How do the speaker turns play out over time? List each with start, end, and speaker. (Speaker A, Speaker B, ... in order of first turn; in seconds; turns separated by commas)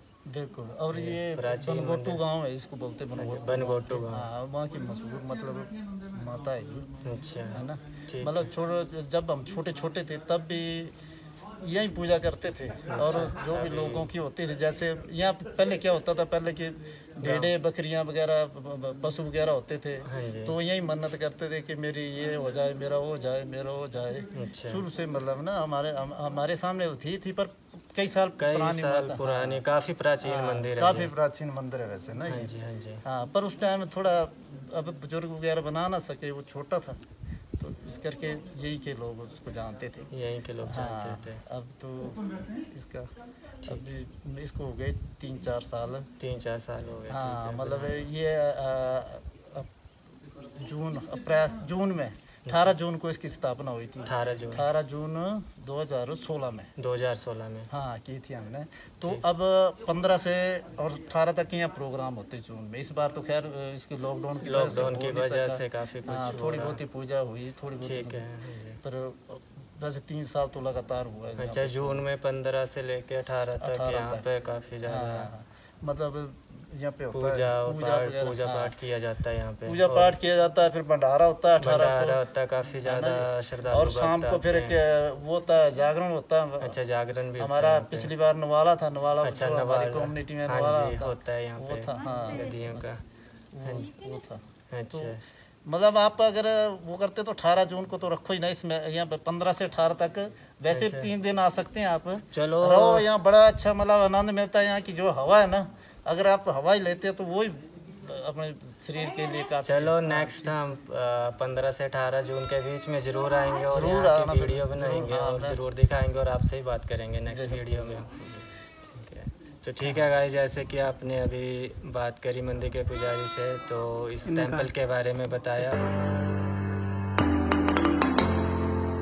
Speaker A: 0.3-6.8, Speaker B: 0.9-2.2, Speaker B: 3.1-4.3, Speaker B: 7.0-8.5, Speaker A: 7.5-10.9, Speaker A: 11.6-29.6, Speaker B: 12.9-14.1, Speaker B: 17.2-17.5, Speaker B: 20.1-20.6, Speaker B: 24.3-24.8, Speaker B: 28.4-31.1, Speaker A: 30.2-32.5, Speaker B: 32.3-33.0, Speaker A: 33.0-37.0, Speaker A: 37.6-40.1, Speaker B: 40.1-41.4, Speaker A: 40.6-43.1, Speaker A: 43.6-46.1, Speaker B: 46.2-48.1, Speaker A: 47.1-49.7, Speaker A: 50.6-56.7, Speaker B: 52.5-52.8, Speaker B: 54.0-54.7, Speaker B: 56.8-57.7, Speaker A: 57.7-68.2, Speaker B: 64.5-66.8, Speaker B: 67.8-68.8, Speaker A: 68.8-72.0, Speaker B: 71.4-75.3, Speaker A: 73.3-74.2, Speaker A: 74.9-78.7, Speaker B: 77.1-80.2, Speaker A: 79.7-82.2, Speaker B: 81.6-84.8, Speaker A: 82.8-86.8, Speaker B: 86.6-88.1, Speaker A: 87.4-92.8, Speaker B: 89.2-93.0, Speaker A: 93.5-110.6, Speaker B: 93.6-93.9, Speaker B: 94.7-95.2, Speaker B: 100.7-101.1, Speaker B: 102.3-103.1, Speaker B: 109.6-125.8, Speaker A: 113.7-115.6, Speaker A: 117.3-118.4, Speaker A: 119.8-120.1, Speaker A: 124.3-124.7